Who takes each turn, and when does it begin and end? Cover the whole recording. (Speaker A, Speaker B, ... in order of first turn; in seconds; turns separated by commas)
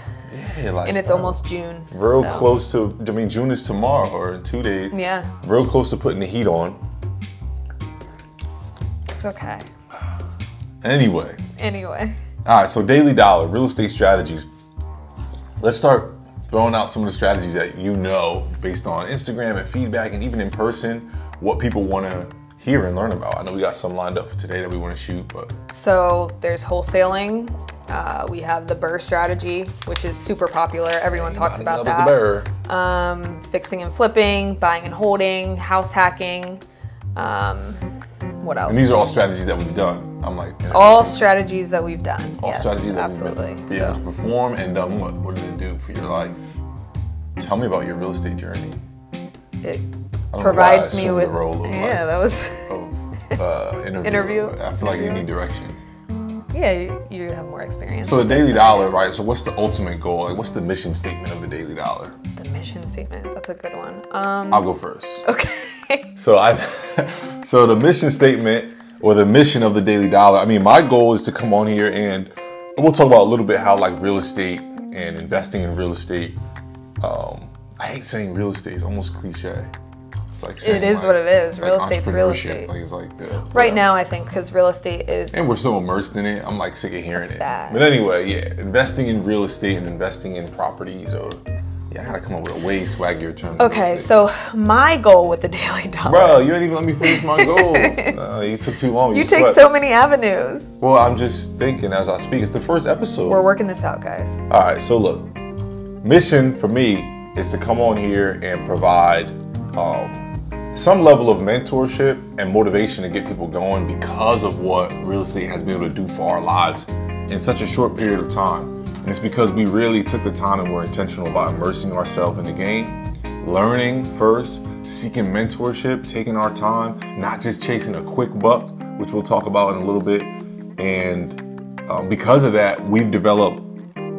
Speaker A: 0.3-6.8, Speaker B: 0.8-2.5, Speaker B: 4.9-5.3, Speaker B: 9.1-9.7, Speaker A: 10.8-11.4, Speaker B: 11.6-12.2, Speaker A: 12.4-14.5, Speaker A: 15.6-25.5, Speaker B: 25.7-36.6, Speaker A: 31.1-32.5, Speaker B: 37.2-37.8, Speaker B: 38.4-39.0, Speaker A: 38.7-41.3, Speaker B: 40.7-44.0, Speaker A: 42.4-46.6, Speaker A: 47.4-48.8, Speaker A: 50.3-55.8, Speaker B: 50.4-52.7, Speaker B: 54.0-55.3, Speaker B: 56.5-58.9, Speaker A: 58.0-62.1, Speaker B: 62.4-64.7, Speaker A: 64.5-65.3, Speaker B: 65.2-66.1, Speaker A: 66.2-76.4, Speaker A: 77.0-79.7, Speaker A: 80.3-83.9, Speaker B: 80.6-82.7, Speaker B: 83.5-85.6, Speaker A: 85.3-94.1, Speaker B: 87.2-87.9, Speaker B: 93.6-96.5, Speaker A: 96.0-99.7, Speaker B: 97.0-98.2, Speaker B: 99.1-100.8, Speaker A: 100.8-103.4, Speaker B: 103.3-104.4, Speaker A: 104.5-105.3, Speaker A: 106.0-133.7